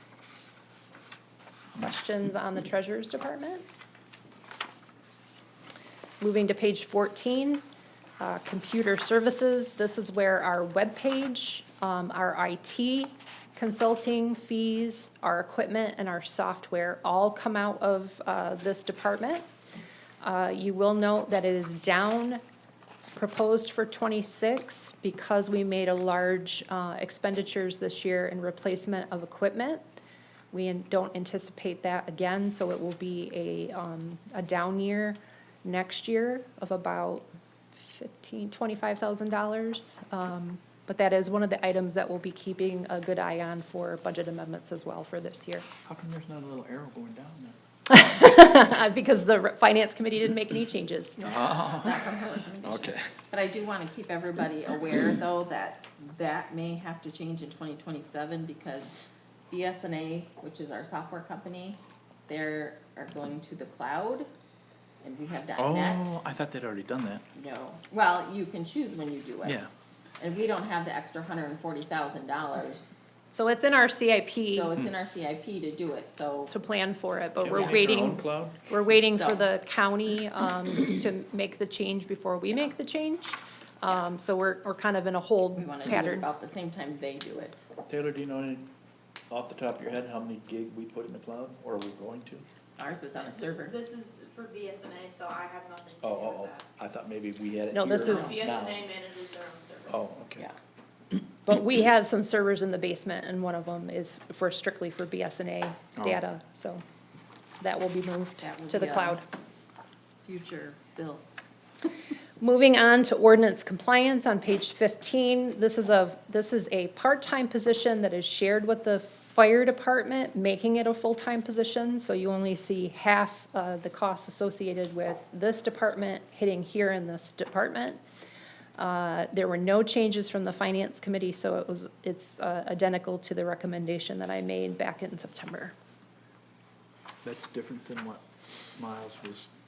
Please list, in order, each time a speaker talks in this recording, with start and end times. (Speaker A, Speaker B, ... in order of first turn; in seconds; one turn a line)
Speaker A: 1.8-3.6
Speaker A: 6.2-7.6
Speaker A: 8.2-19.4
Speaker A: 20.2-22.4
Speaker A: 23.1-29.8
Speaker A: 30.5-45.7
Speaker B: 45.9-47.5
Speaker A: 47.9-51.2
Speaker C: 51.2-58.9
Speaker B: 51.2-52.0
Speaker B: 52.6-53.1
Speaker C: 59.5-64.3
Speaker C: 65.0-66.2
Speaker B: 65.6-67.2
Speaker C: 67.3-72.9
Speaker A: 73.3-74.8
Speaker C: 74.5-76.5
Speaker A: 76.5-86.2
Speaker B: 77.4-78.6
Speaker C: 79.0-79.5
Speaker C: 85.6-87.7
Speaker B: 87.9-88.7
Speaker B: 89.3-92.4
Speaker C: 92.8-93.8
Speaker D: 93.5-96.6
Speaker B: 96.0-98.9
Speaker A: 97.7-98.4
Speaker D: 98.2-99.9
Speaker B: 99.9-100.5
Speaker A: 101.5-106.8
Speaker A: 107.6-109.2
Speaker C: 108.4-109.2
Speaker C: 110.2-111.2
Speaker A: 112.4-128.0
Speaker A: 128.8-135.7
Speaker B: 137.2-138.2
Speaker B: 138.8-139.5